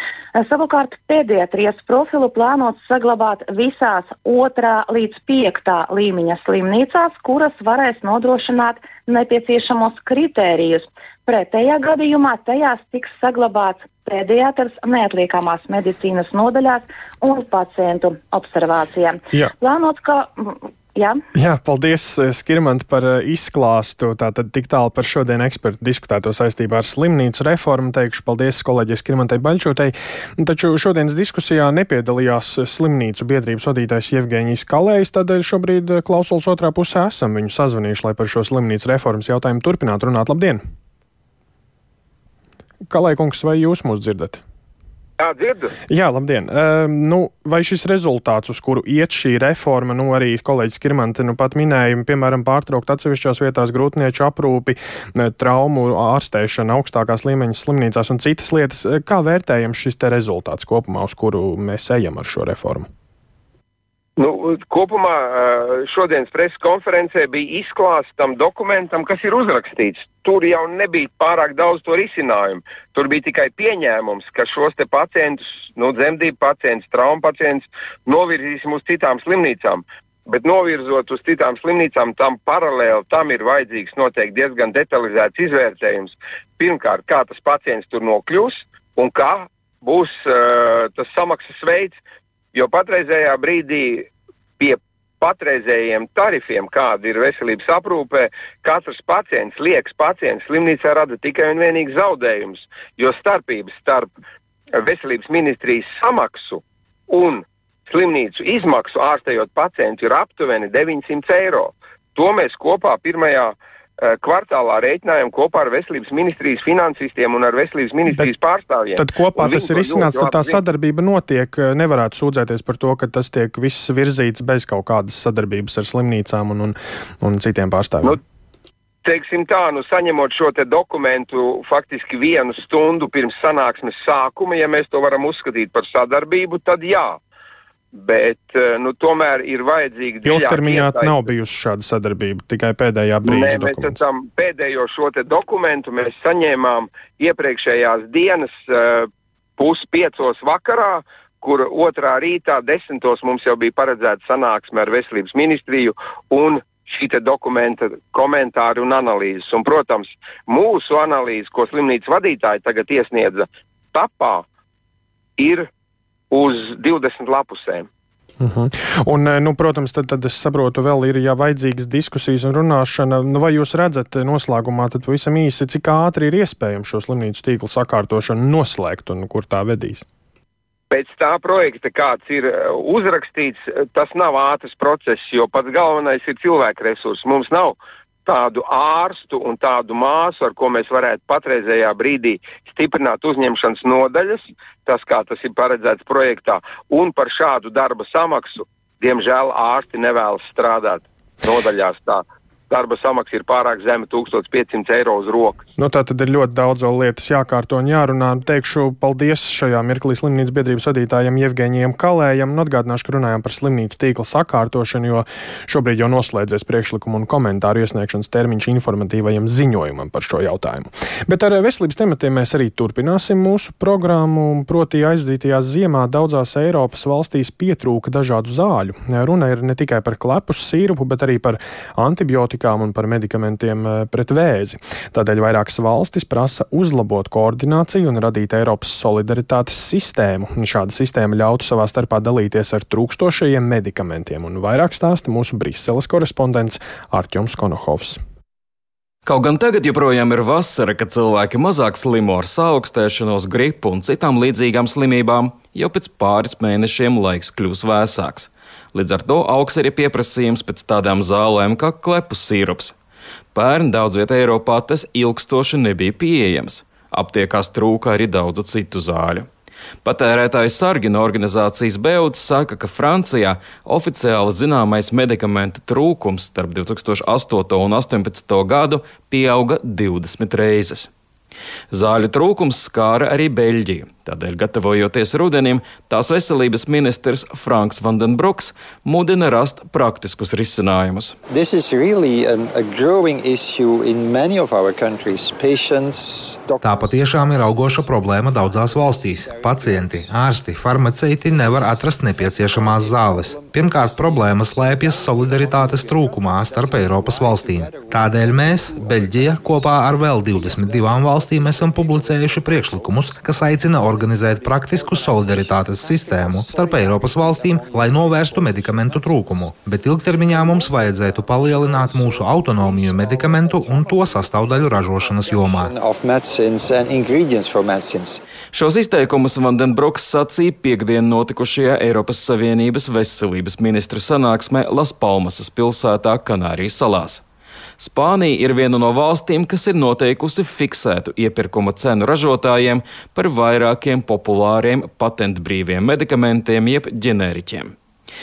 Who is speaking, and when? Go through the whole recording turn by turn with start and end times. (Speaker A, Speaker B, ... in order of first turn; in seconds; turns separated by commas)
Speaker A: 0.3-21.2, Speaker B: 21.4-40.6, Speaker B: 42.9-44.4, Speaker C: 45.2-45.7, Speaker B: 45.9-62.9, Speaker C: 64.2-92.0, Speaker C: 92.5-104.1, Speaker C: 104.7-120.6, Speaker B: 119.0-128.2, Speaker C: 129.0-137.2, Speaker C: 137.9-141.1, Speaker B: 140.2-144.0, Speaker C: 143.2-164.4, Speaker C: 165.4-165.7, Speaker C: 166.3-167.9, Speaker B: 168.4-180.0, Speaker C: 180.9-205.6, Speaker B: 205.8-248.2, Speaker D: 249.2-262.9, Speaker D: 263.5-269.5, Speaker D: 270.0-281.1, Speaker D: 281.9-291.4, Speaker E: 291.5-296.1, Speaker F: 296.8-325.9, Speaker E: 325.9-328.4, Speaker D: 328.7-337.4, Speaker D: 338.0-347.9